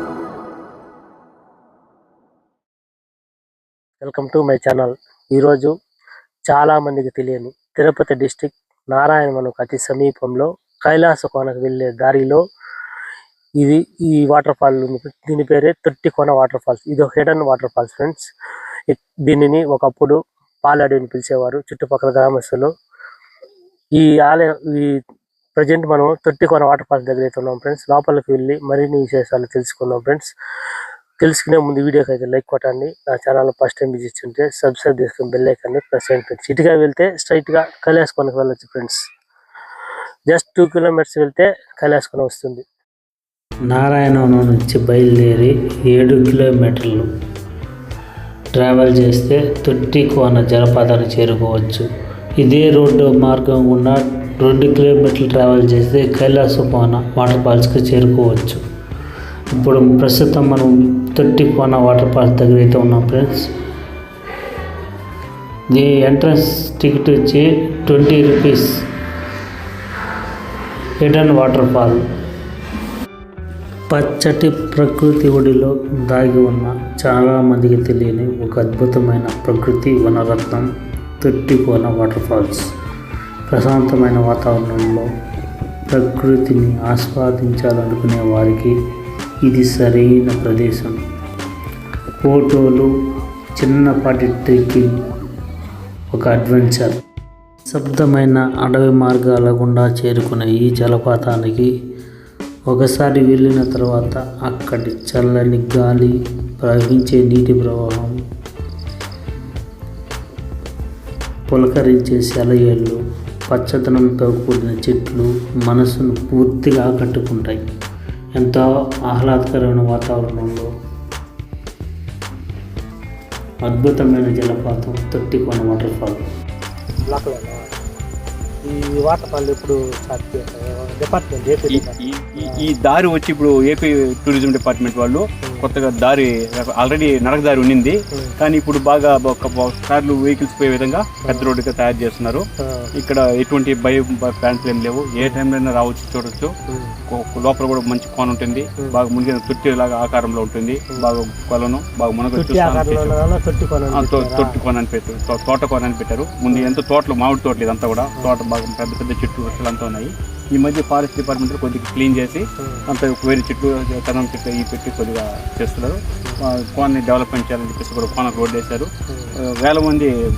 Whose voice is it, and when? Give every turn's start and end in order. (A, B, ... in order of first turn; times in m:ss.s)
0:04.0-0:05.7 A
0:06.5-0:12.4 A
0:13.6-0:18.2 A
0:18.9-0:22.7 A
0:24.0-0:24.9 A
0:25.6-0:30.3 A
0:31.2-0:39.0 A
0:40.3-0:42.6 A
0:43.7-0:47.1 B
0:48.5-0:51.8 B
0:52.4-0:58.6 B
0:59.5-1:03.5 B
1:05.7-1:08.7 B
1:11.0-1:12.0 B
1:13.9-1:20.7 B
1:21.2-1:22.6 B
1:23.5-1:25.1 B
1:25.9-1:28.7 B
1:29.4-1:31.0 B
1:32.2-1:32.9 B
1:33.6-1:34.9 B
1:36.1-1:37.0 B
1:37.7-1:41.7 B
1:42.7-1:48.1 B
1:51.5-1:57.6 B
1:58.4-2:00.7 B
2:03.6-2:06.2 B
2:07.1-2:07.6 A
2:08.6-2:12.7 A
2:11.7-2:22.4 C
2:15.4-2:15.7 A
2:23.0-2:26.5 C
2:26.7-2:27.0 A
2:27.1-2:33.1 C
2:32.3-2:34.6 A
2:33.9-2:48.9 C
2:36.5-2:36.8 A
2:49.1-2:49.4 A
2:49.5-2:50.1 C